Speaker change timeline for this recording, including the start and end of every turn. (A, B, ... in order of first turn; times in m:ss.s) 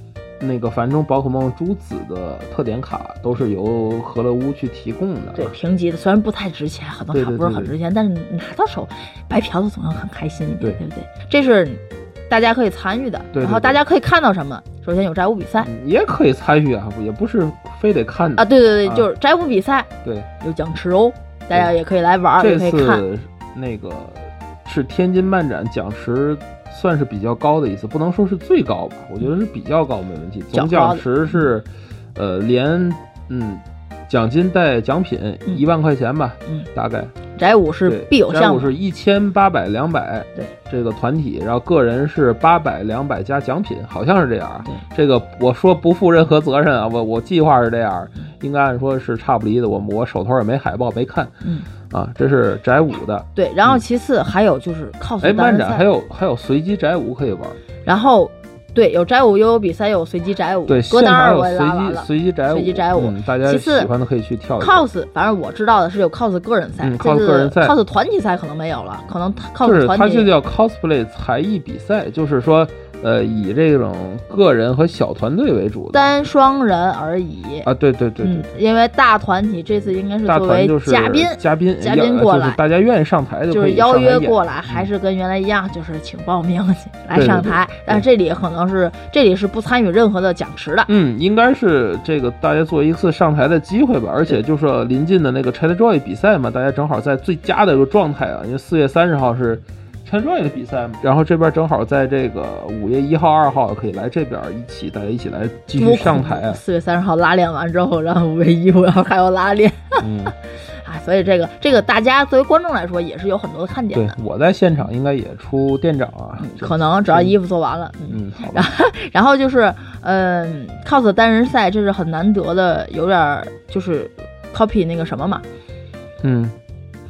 0:00.4-0:05.5 A
0:05.4-0:15.7 B
0:07.1-0:07.8 A
0:13.3-0:13.8 A
0:15.6-0:19.1 A
0:18.4-0:19.9 B
0:20.4-0:23.0 B
0:22.4-0:37.1 A
0:30.5-0:31.5 B
0:37.4-0:38.7 B
0:37.9-0:51.3 A
0:51.4-0:51.7 B
0:51.9-0:53.8 A
0:53.4-0:55.9 B
0:55.2-0:57.6 A
0:57.8-1:03.9 B
1:00.7-1:04.9 A
1:04.6-1:10.3 B
1:06.8-1:07.8 A
1:09.6-1:16.1 A
1:15.9-1:17.7 B
1:17.6-1:18.5 A
1:18.2-1:22.6 B
1:20.3-1:24.9 A
1:23.5-1:30.9 B
1:27.1-1:28.0 A
1:30.9-1:46.6 A
1:45.8-1:54.2 B
1:50.0-1:50.4 A
1:53.9-1:57.4 A
1:56.4-2:05.4 B
1:58.1-1:58.7 A
2:06.2-2:06.6 A